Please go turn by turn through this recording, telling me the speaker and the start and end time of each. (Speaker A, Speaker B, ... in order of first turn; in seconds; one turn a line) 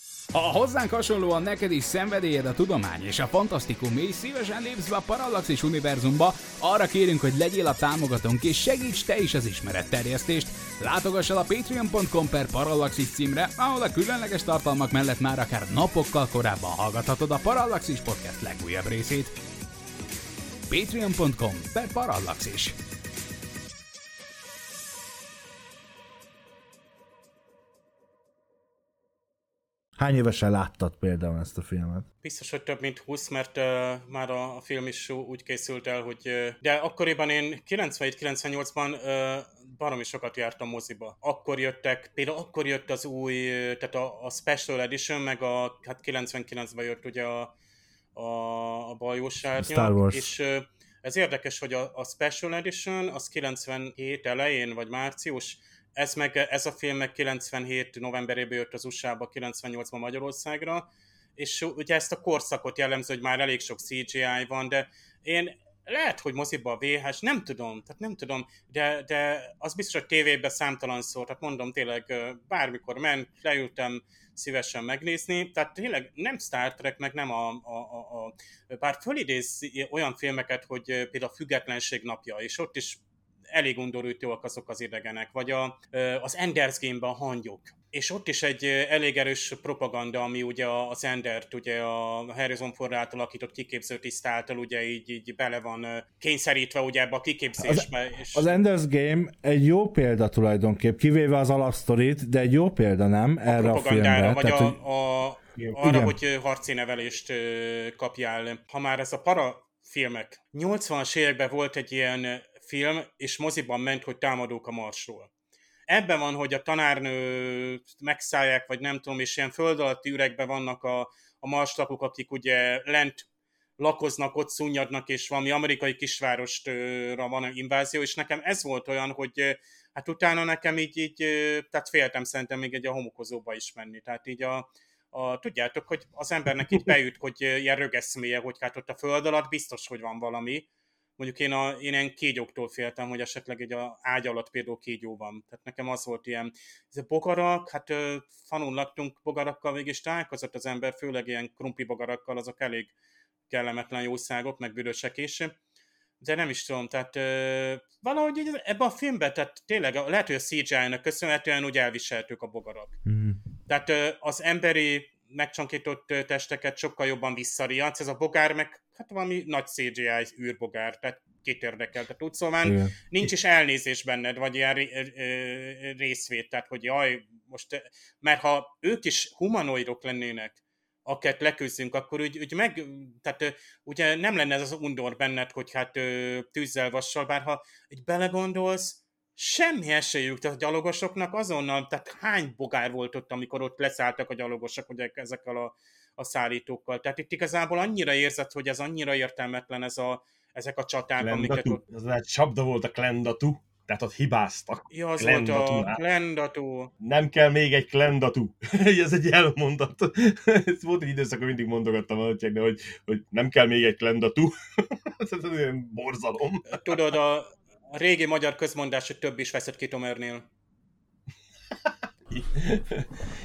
Speaker A: 0.3-19.4
Speaker A: 20.7-22.8
Speaker B: 30.0-32.1
Speaker C: 32.2-47.5
Speaker C: 48.1-60.9
Speaker B: 49.6-50.3
Speaker C: 61.4-83.0
Speaker C: 83.5-98.6
Speaker B: 97.6-104.8
Speaker C: 103.5-115.3
Speaker B: 105.8-106.2
Speaker C: 115.9-123.3
Speaker C: 123.8-140.7
Speaker C: 141.2-152.9
Speaker C: 153.5-155.5
Speaker C: 156.2-163.0
Speaker B: 163.1-163.4
Speaker C: 163.7-201.8
Speaker B: 172.6-172.9
Speaker D: 201.2-206.0
Speaker C: 204.9-206.9
Speaker D: 207.0-216.8
Speaker C: 216.7-220.4
Speaker D: 222.3-223.1